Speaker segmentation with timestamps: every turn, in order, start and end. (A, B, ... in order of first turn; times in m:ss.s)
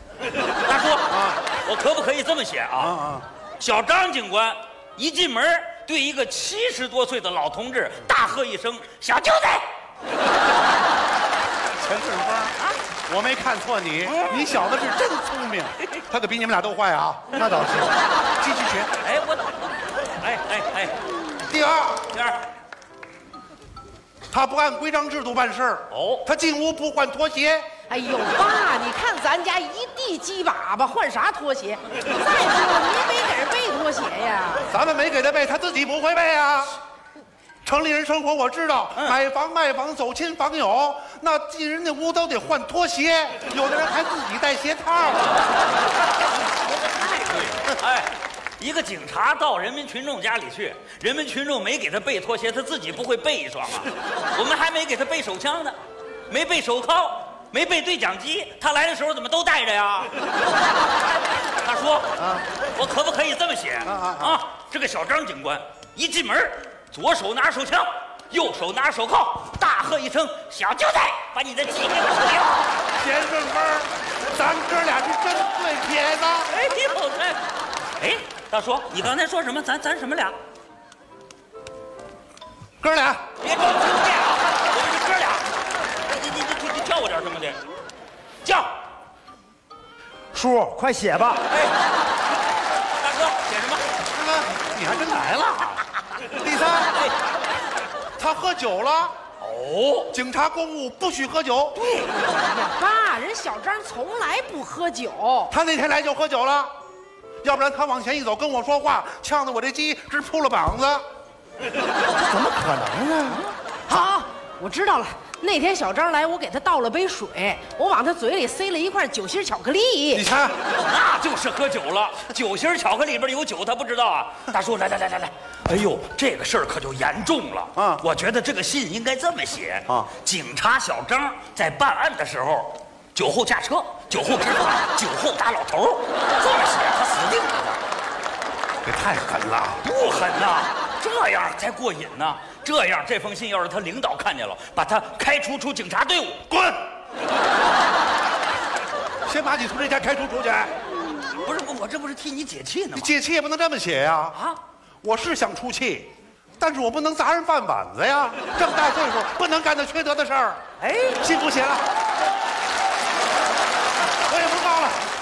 0:00.6-0:03.0 A
0:01.1-0:01.4 B
0:02.8-0:03.2 B
0:03.6-0:09.7 A
0:11.8-0:12.5 B
0:13.1-0:17.3 B
0:14.1-0:14.4 A
0:17.3-0:17.9 C
0:18.4-0:18.9 B
0:19.0-0:19.6 A
0:20.2-0:21.0 A
0:21.4-0:22.1 B
0:22.1-0:22.4 A
0:24.3-0:27.8 B
0:25.9-0:26.2 A
0:27.9-0:34.6 D
0:34.7-0:36.8 B
0:37.6-0:45.4 B
0:46.4-0:55.8 A
0:56.3-1:00.1 A
1:01.6-1:12.7 A
1:03.8-1:04.4 B
1:13.0-1:16.5 B
1:16.5-1:17.4 A
1:18.0-1:20.4 A
1:22.8-1:23.2 B
1:23.4-1:27.6 A
1:28.4-1:28.7 A
1:30.3-1:31.5 C
1:31.5-1:31.8 A
1:32.8-1:33.8 A
1:34.0-1:36.9 B
1:38.2-1:39.1 B
1:39.4-1:40.1 A
1:40.1-1:41.8 B
1:41.8-1:45.5 D
1:45.5-1:46.7 B
1:47.4-1:51.0 B
1:52.1-1:53.4 C
1:53.9-2:00.2 D
2:00.1-2:00.6 B
2:00.8-2:17.8 A
2:07.8-2:08.0 B
2:18.8-2:19.8 B
2:19.8-2:26.4 A
2:26.5-2:26.8 B
2:29.2-2:30.7 B
2:31.3-2:33.1 A
2:32.9-2:34.4 B
2:34.3-2:34.6 A
2:35.0-2:40.6 B
2:40.8-2:41.2 A
2:41.2-2:41.8 B
2:44.3-2:45.0 B